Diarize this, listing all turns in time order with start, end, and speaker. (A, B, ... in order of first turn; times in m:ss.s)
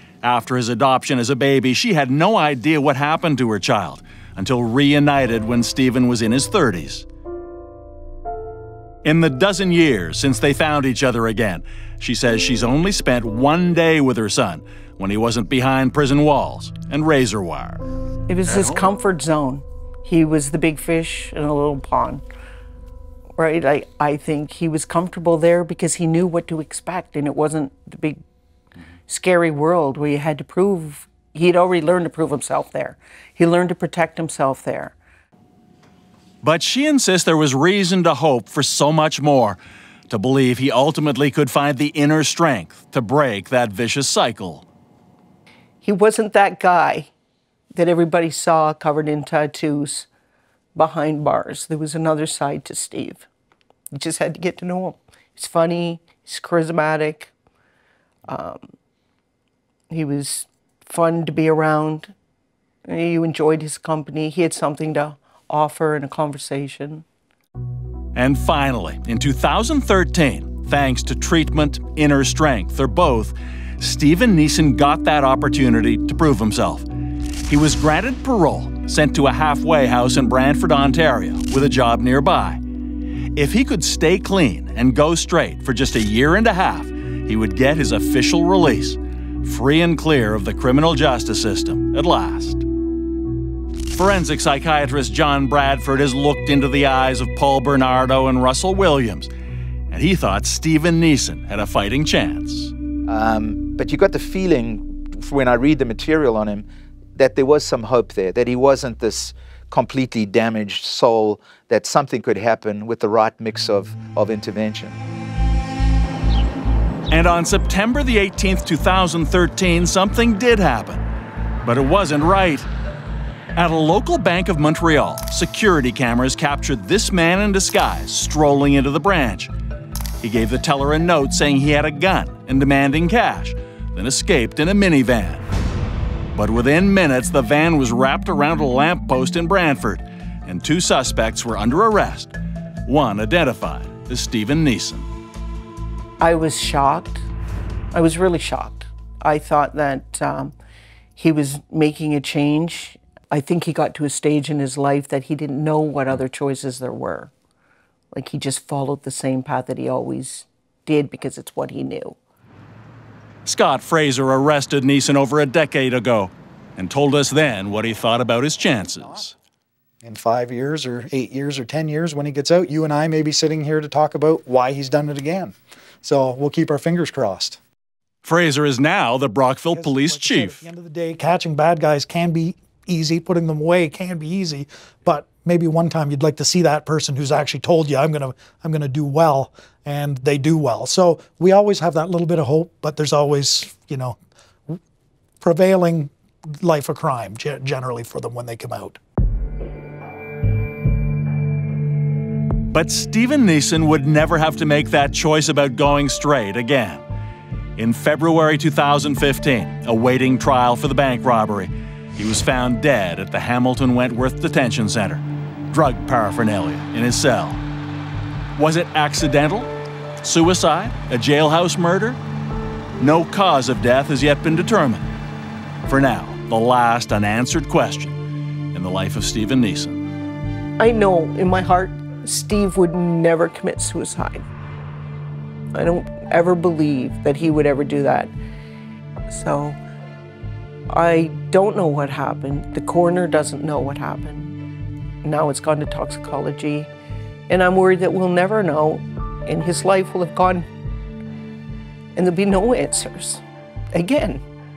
0:00.2-0:07.0 A
0:09.0-0:17.8 A
0:18.3-0:22.2 B
0:18.4-0:18.8 A
0:23.4-0:28.2 B
0:29.1-0:34.9 B
0:36.4-0:39.6 A
0:40.1-0:44.6 A
0:45.8-0:47.1 B
0:47.7-0:50.1 B
0:50.7-0:53.3 B
0:53.9-0:57.3 B
0:58.3-0:58.7 B
0:59.9-1:02.1 B
1:02.8-1:07.0 B
1:08.1-1:16.9 A
1:17.5-1:22.6 A
1:23.4-1:32.6 A
1:33.9-1:39.3 A
1:39.9-1:42.7 A
1:43.0-1:55.0 C
1:57.1-2:01.0 A
2:01.6-2:02.7 A
2:03.6-2:09.5 A
2:10.2-2:15.4 A
2:16.3-2:22.3 A
2:22.9-2:25.1 A
2:26.2-2:27.2 B
2:27.9-2:30.6 B
2:31.2-2:37.3 B
2:38.1-2:42.2 B
2:43.4-2:49.3 A
2:49.0-2:49.2 D
2:50.0-2:57.6 D
2:58.2-3:00.6 A
2:59.7-3:14.2 D
3:15.4-3:16.1 D
3:16.6-3:19.0 D
3:22.7-3:27.0 A
3:27.8-3:37.6 A
3:38.6-3:39.7 A
3:40.2-3:42.2 A
3:43.0-3:45.1 A
3:45.8-3:48.2 A
3:48.7-3:50.1 A
3:50.8-3:54.4 B
3:55.7-3:58.3 B
3:59.3-3:59.8 B
4:00.9-4:04.6 B
4:05.2-4:06.9 B
4:07.5-4:10.7 B
4:12.1-4:13.4 B
4:13.9-4:14.4 B